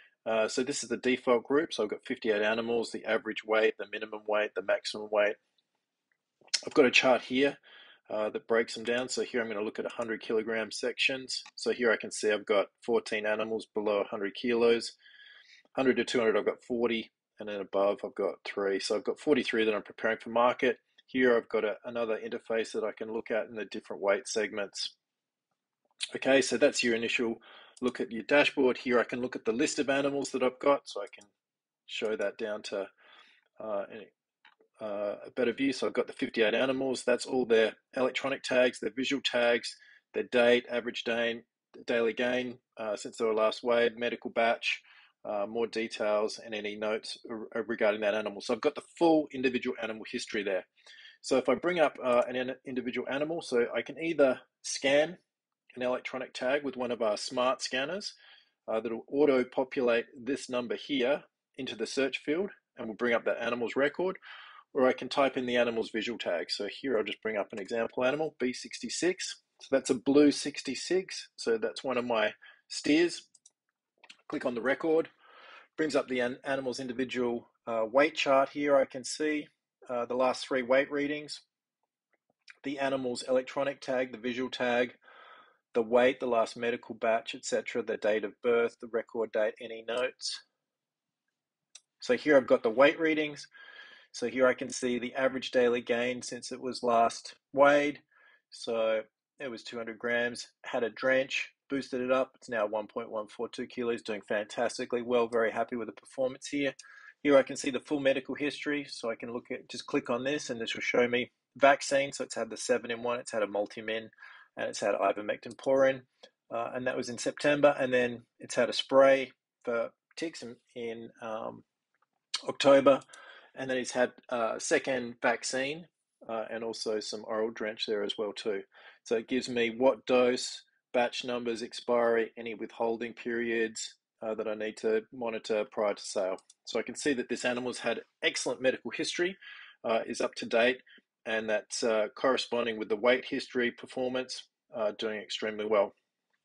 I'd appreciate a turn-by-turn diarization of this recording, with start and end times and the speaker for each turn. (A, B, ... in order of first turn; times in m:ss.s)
0:00.2-0:05.4 A
0:06.7-0:15.0 A
0:15.8-0:24.9 A
0:26.1-0:31.3 A
0:31.9-0:32.9 A
0:33.6-0:34.1 A
0:34.8-0:50.7 A
0:51.2-0:55.2 A
0:55.7-0:58.2 A
0:58.7-1:04.2 A
1:04.7-1:13.3 A
1:14.3-1:15.1 A
1:15.8-1:21.4 A
1:22.6-1:25.0 A
1:25.7-1:30.4 A
1:32.0-1:33.5 A
1:34.1-2:01.6 A
2:02.4-2:03.0 A
2:03.5-2:25.9 A